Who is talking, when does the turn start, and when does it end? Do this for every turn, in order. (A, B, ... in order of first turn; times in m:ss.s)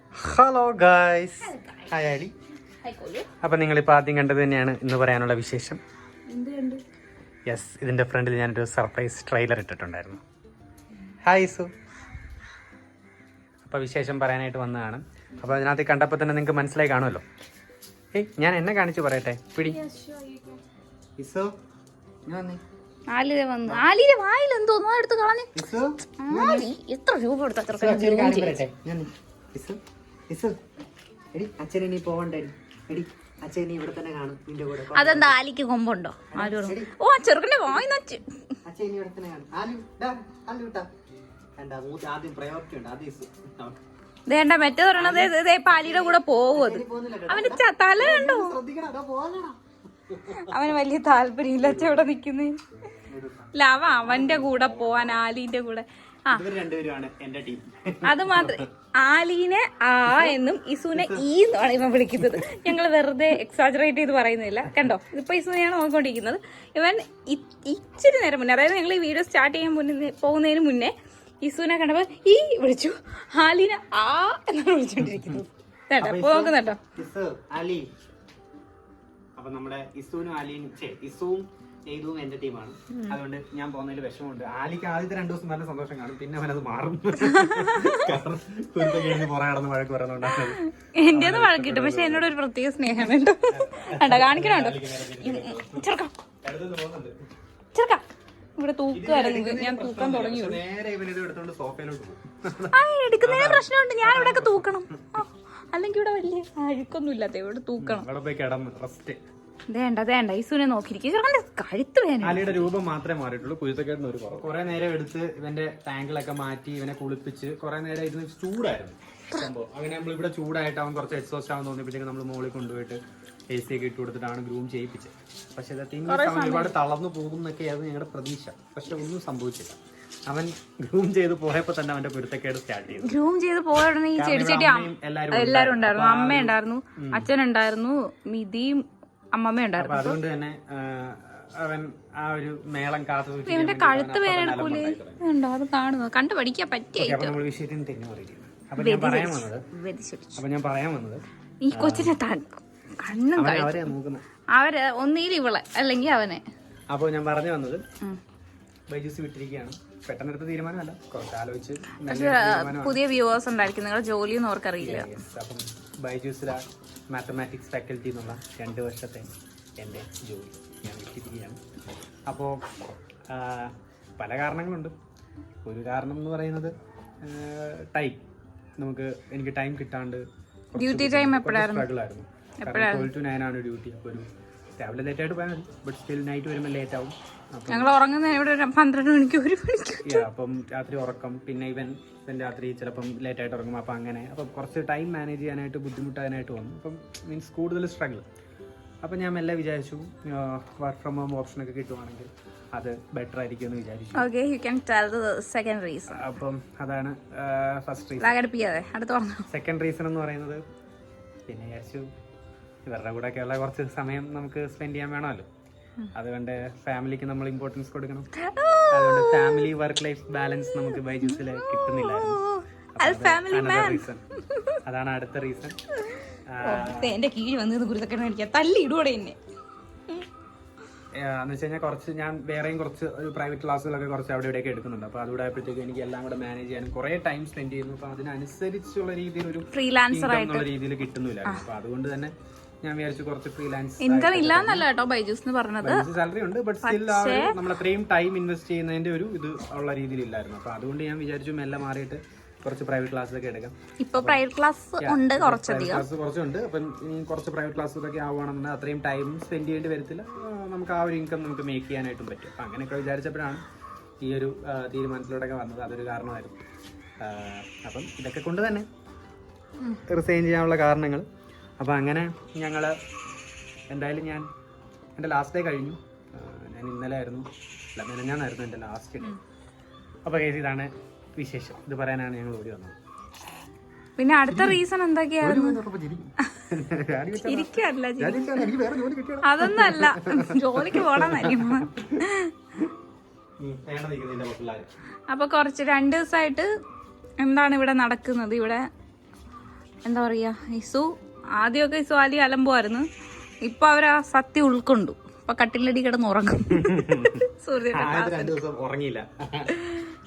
0:00.2-0:02.3 A
0:01.4-0:02.0 B
0:02.8-0:03.2 B
0:03.4-0:05.8 A
0:06.3-0:06.8 B
0:07.5-0:10.2 A
0:11.2-0:11.7 A
0:13.6-0:17.2 A
0:18.1-0:19.8 A
0:19.6-0:20.6 B
0:21.2-0:21.5 A
0:22.3-0:22.6 A
0:23.1-0:25.5 B
0:25.5-0:26.7 A
0:26.2-0:28.6 B
0:27.7-0:30.6 A
0:31.3-0:35.4 A
0:34.9-0:38.4 B
0:36.3-0:36.9 A
0:38.6-0:40.9 A
0:41.6-0:43.8 A
0:44.3-0:48.6 B
0:44.9-0:50.7 A
0:50.3-0:52.6 B
0:51.6-0:52.1 A
0:53.1-0:55.2 A
0:53.5-0:56.4 B
0:56.3-0:58.6 A
0:58.0-1:16.8 B
1:00.0-1:00.4 A
1:00.9-1:01.3 A
1:02.2-1:02.6 A
1:15.0-1:15.4 A
1:16.0-1:17.8 A
1:19.4-1:32.3 A
1:27.2-1:28.1 B
1:30.4-1:36.1 B
1:33.5-1:35.9 A
1:36.4-1:37.1 A
1:37.7-1:38.0 B
1:38.6-1:40.6 B
1:38.9-1:45.2 A
1:42.7-1:48.0 B
1:47.8-1:49.2 A
1:49.7-1:52.7 B
1:52.2-2:03.0 A
2:03.5-2:13.2 A
2:06.1-2:06.7 B
2:13.0-2:20.2 B
2:14.1-2:17.3 A
2:19.8-2:25.2 A
2:23.5-2:27.4 B
2:27.0-2:29.6 A
2:28.8-2:30.4 B
2:30.4-2:32.2 A
2:31.6-2:33.9 B
2:33.4-2:34.2 A
2:34.5-2:36.4 B
2:36.9-2:37.8 A
2:38.9-2:43.0 A
2:42.0-2:45.1 B
2:44.8-2:49.3 A
2:49.8-2:51.6 A
2:52.3-2:52.6 A
2:53.3-2:54.9 A
2:55.6-2:58.2 A
2:58.8-3:04.3 A
3:00.8-3:01.9 B
3:02.6-3:03.1 B
3:04.8-3:07.9 A
3:07.7-3:10.2 B
3:10.0-3:18.2 A
3:19.0-3:24.3 A
3:24.1-3:26.3 B
3:26.1-3:28.4 A
3:28.2-3:29.4 B
3:29.5-3:30.6 A
3:31.5-3:32.1 A
3:32.8-3:35.5 A
3:36.1-3:38.3 A
3:38.4-3:39.7 B
3:38.9-3:42.4 A
3:40.8-3:44.8 B
3:43.0-3:44.2 A
3:44.8-3:45.8 A
3:46.5-3:47.2 A
3:46.6-3:49.4 B
3:51.1-4:04.9 A
3:59.7-4:00.7 B
4:04.0-4:06.0 B
4:05.8-4:14.4 A
4:06.8-4:07.6 B
4:14.0-4:16.1 B
4:15.0-4:23.6 A
4:24.2-4:26.7 A
4:27.2-4:28.9 A
4:30.1-4:31.3 A
4:31.8-4:33.0 A
4:33.9-4:34.5 A
4:35.2-4:39.4 A
4:40.2-4:43.0 A
4:44.2-4:45.8 B
4:44.5-4:44.8 A
4:45.4-4:52.2 A
4:47.4-4:48.8 B
4:49.4-4:52.5 B
4:53.6-4:54.9 A
4:55.3-4:56.7 B
4:57.4-4:58.8 B
5:00.0-5:03.1 B
5:03.6-5:08.6 B
5:06.7-5:09.8 A